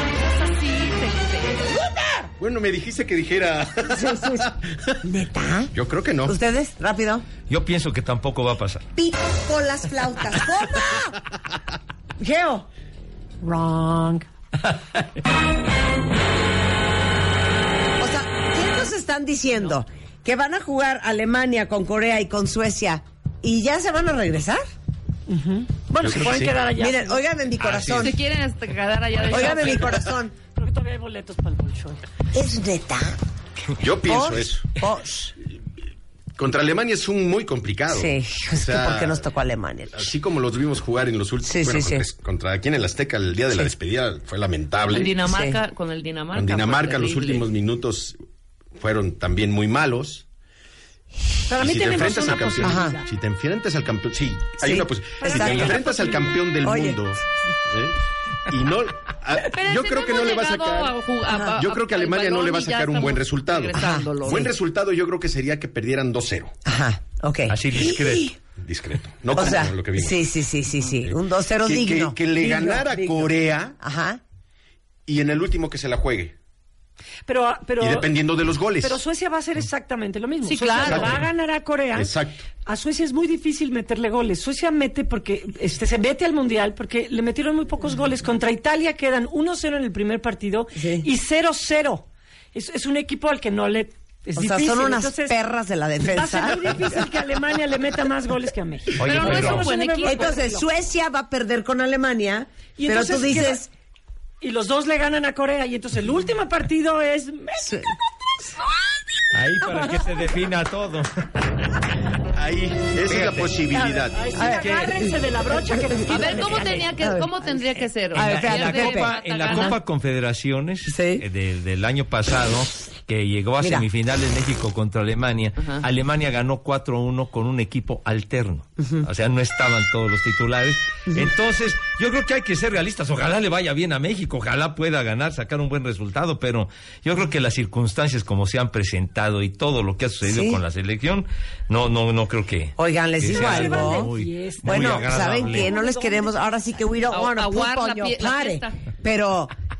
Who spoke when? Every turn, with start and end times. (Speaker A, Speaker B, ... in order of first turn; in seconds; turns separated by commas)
Speaker A: 0.2-1.7, Speaker B: 1.6-2.3, Speaker C: 2.4-5.0, Speaker B: 3.9-4.5, Speaker B: 5.0-5.7, Speaker C: 5.7-6.4, Speaker B: 6.2-7.3, Speaker D: 7.5-8.8, Speaker B: 8.9-11.2, Speaker B: 12.2-12.7, Speaker E: 13.4-14.3, Speaker B: 18.0-24.6, Speaker E: 25.3-27.2, Speaker C: 26.0-26.6, Speaker B: 26.8-28.2, Speaker D: 27.6-28.1, Speaker A: 27.9-30.0, Speaker E: 29.2-30.0, Speaker B: 29.3-30.3, Speaker E: 30.5-32.0, Speaker B: 32.3-33.2, Speaker C: 33.8-34.7, Speaker B: 34.0-35.3, Speaker C: 36.4-39.2, Speaker B: 37.9-40.1, Speaker C: 39.9-45.2, Speaker B: 41.4-42.0, Speaker A: 44.9-47.5, Speaker B: 45.2-45.6, Speaker C: 46.3-48.2, Speaker C: 48.8-50.2, Speaker E: 51.5-53.1, Speaker C: 51.5-58.0, Speaker B: 52.6-53.0, Speaker B: 54.6-55.8, Speaker E: 55.2-56.5, Speaker B: 56.6-57.0, Speaker C: 58.5-60.9, Speaker A: 59.4-64.5, Speaker B: 61.3-61.5, Speaker C: 61.5-66.5, Speaker B: 63.7-64.5, Speaker B: 66.6-68.3, Speaker D: 67.5-68.3, Speaker C: 68.6-70.3, Speaker B: 69.3-74.2, Speaker C: 71.0-73.8, Speaker C: 75.0-76.3, Speaker E: 77.3-78.1, Speaker C: 77.8-79.0, Speaker E: 78.8-82.1, Speaker A: 80.4-81.1, Speaker C: 80.8-81.3, Speaker C: 81.9-82.4, Speaker E: 82.7-95.3, Speaker B: 90.8-91.1, Speaker B: 94.3-97.0, Speaker E: 96.0-100.6, Speaker D: 99.0-99.7, Speaker A: 99.0-100.3, Speaker B: 100.0-103.7, Speaker E: 102.8-103.6, Speaker E: 104.4-107.8, Speaker B: 107.6-107.9, Speaker D: 109.3-111.1, Speaker C: 112.3-114.4, Speaker D: 113.0-113.6, Speaker E: 113.7-116.8, Speaker B: 114.3-119.8, Speaker D: 114.6-114.9, Speaker A: 116.1-119.8, Speaker D: 118.1-145.7, Speaker B: 120.8-121.2, Speaker B: 123.6-123.9, Speaker B: 128.8-129.1, Speaker B: 140.2-140.6, Speaker B: 142.8-144.1, Speaker E: 143.3-146.4, Speaker B: 144.6-149.5, Speaker A: 147.1-148.8